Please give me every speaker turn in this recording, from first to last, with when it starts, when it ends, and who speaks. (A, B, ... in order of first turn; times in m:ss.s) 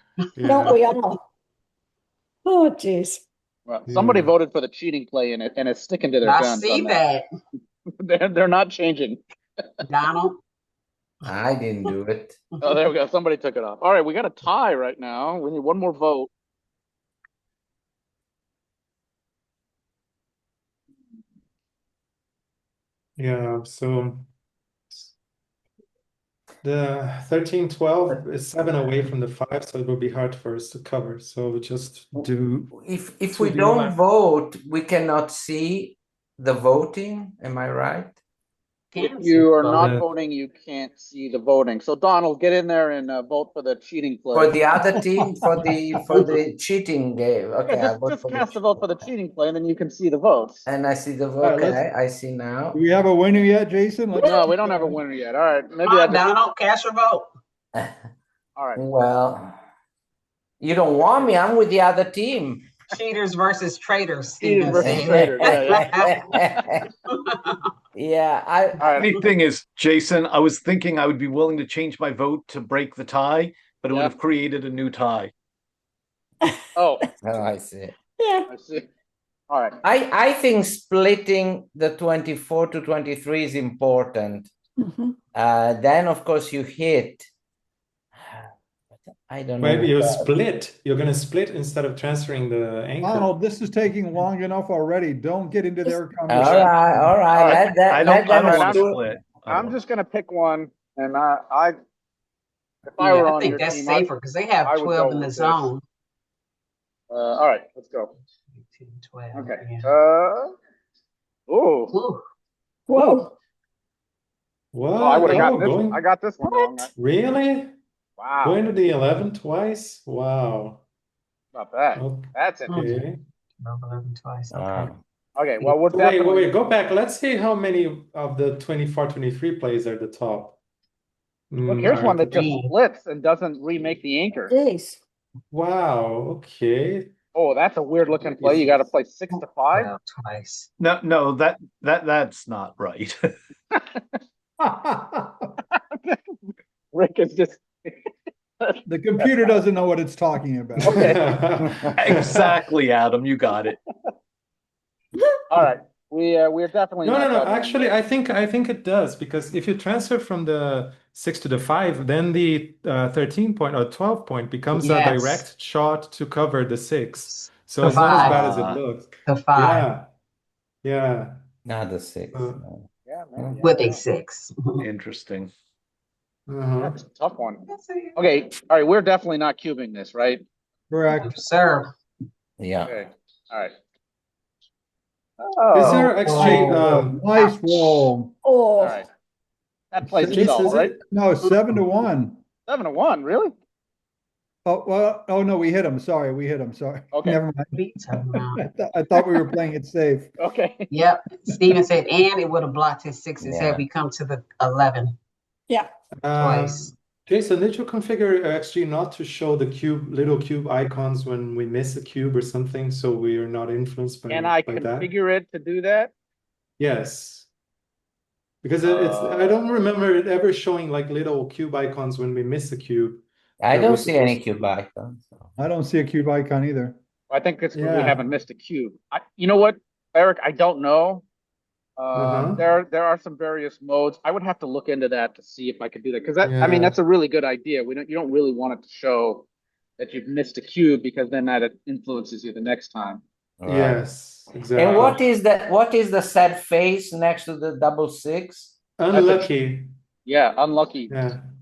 0:00.4-0:00.9 A
0:00.4-0:01.2 B
0:02.5-0:03.2 B
0:03.7-0:07.0 C
0:03.9-0:04.3 A
0:06.2-0:07.2 D
0:08.0-0:09.2 C
0:09.8-0:10.4 D
0:11.2-0:12.4 E
0:12.6-0:16.3 C
0:23.2-0:24.3 A
0:26.6-0:32.3 A
0:32.2-0:32.7 F
0:32.7-0:38.2 E
0:33.3-0:33.7 F
0:33.5-0:34.0 A
0:38.9-0:40.0 D
0:39.0-0:44.5 C
0:39.8-0:40.0 A
0:44.3-0:48.8 E
0:47.7-0:50.7 C
0:50.6-0:52.8 E
0:51.4-0:51.8 F
0:52.7-0:55.0 F
0:54.2-0:56.3 C
0:55.8-0:57.3 D
0:57.7-0:58.0 E
0:58.8-0:59.6 E
1:00.6-1:02.7 E
1:02.9-1:06.4 D
1:04.4-1:06.0 C
1:04.7-1:06.8 E
1:07.3-1:07.6 D
1:08.0-1:08.8 E
1:08.8-1:09.1 C
1:08.9-1:15.3 G
1:13.9-1:14.2 C
1:16.8-1:17.1 C
1:17.2-1:18.0 E
1:18.2-1:18.5 B
1:18.5-1:18.9 C
1:19.5-1:19.8 C
1:19.8-1:24.5 E
1:24.8-1:25.2 B
1:25.3-1:27.3 E
1:29.3-1:30.3 E
1:29.6-1:33.3 A
1:33.0-1:37.1 F
1:36.3-1:39.1 E
1:37.3-1:39.0 C
1:37.9-1:39.8 G
1:39.5-1:41.8 C
1:42.9-1:44.1 C
1:43.0-1:45.8 D
1:44.6-1:45.7 C
1:47.1-1:48.1 C
1:48.6-1:49.9 D
1:49.3-1:50.5 C
1:51.5-1:52.0 C
1:51.9-1:52.2 D
1:52.9-1:53.3 B
1:54.7-1:56.0 A
1:55.0-1:56.9 C
1:56.4-1:56.8 B
1:57.0-1:57.7 A
1:58.2-1:58.6 C
1:58.4-2:00.8 A
2:01.6-2:02.8 C
2:02.0-2:03.2 A
2:02.7-2:03.1 D
2:03.6-2:04.9 D
2:04.5-2:05.0 E
2:05.4-2:06.6 C
2:05.9-2:10.6 A
2:11.5-2:12.5 A
2:11.7-2:14.6 C
2:12.3-2:12.7 D
2:14.5-2:15.0 B
2:15.5-2:17.1 A
2:17.4-2:19.9 C
2:19.7-2:20.7 D
2:20.8-2:23.3 G
2:24.6-2:25.4 F
2:26.9-2:28.1 C
2:28.6-2:29.5 C
2:28.9-2:31.2 F
2:30.8-2:31.2 C
2:30.8-2:32.6 A
2:31.8-2:33.8 G
2:35.5-2:37.9 C
2:37.0-2:50.1 A
2:44.8-2:45.5 D
2:47.3-2:48.4 D
2:48.0-2:48.8 G
2:49.3-2:49.9 D
2:50.8-2:51.4 A
2:51.7-2:52.8 E
2:52.3-2:52.6 A
2:53.1-2:54.0 C
2:53.6-2:54.8 D
2:54.8-2:55.5 G
2:56.5-2:57.0 A
2:56.8-2:57.6 C
2:57.7-2:58.2 D
2:58.2-3:00.4 C
3:00.9-3:01.4 F
3:01.2-3:01.9 D
3:02.6-3:02.9 E
3:02.9-3:03.7 C
3:05.4-3:06.1 C
3:05.7-3:07.2 A
3:05.8-3:08.4 F
3:05.8-3:08.1 D
3:08.4-3:09.0 B
3:08.8-3:09.1 C
3:09.9-3:10.9 C
3:10.2-3:11.0 A
3:11.1-3:12.4 F
3:12.7-3:13.5 C
3:14.6-3:20.3 F
3:17.1-3:17.4 C
3:17.7-3:18.6 D
3:20.4-3:20.9 C
3:20.9-3:25.2 D
3:23.4-3:23.8 E
3:26.2-3:35.1 A
3:26.4-3:26.9 D
3:34.3-3:36.1 C
3:36.8-3:37.5 A
3:38.6-3:44.4 A
3:38.8-3:39.6 C
3:43.6-3:45.5 E
3:45.6-3:47.0 F
3:47.3-3:51.2 C
3:47.7-3:48.2 A
3:52.0-3:59.5 C
3:52.2-3:52.6 A
3:56.4-3:57.0 A
4:00.0-4:03.2 C
4:03.6-4:04.0 E
4:03.6-4:05.2 A
4:04.8-4:08.7 E
4:09.0-4:09.9 A
4:09.1-4:09.5 C
4:10.3-4:11.2 C
4:11.1-4:11.4 A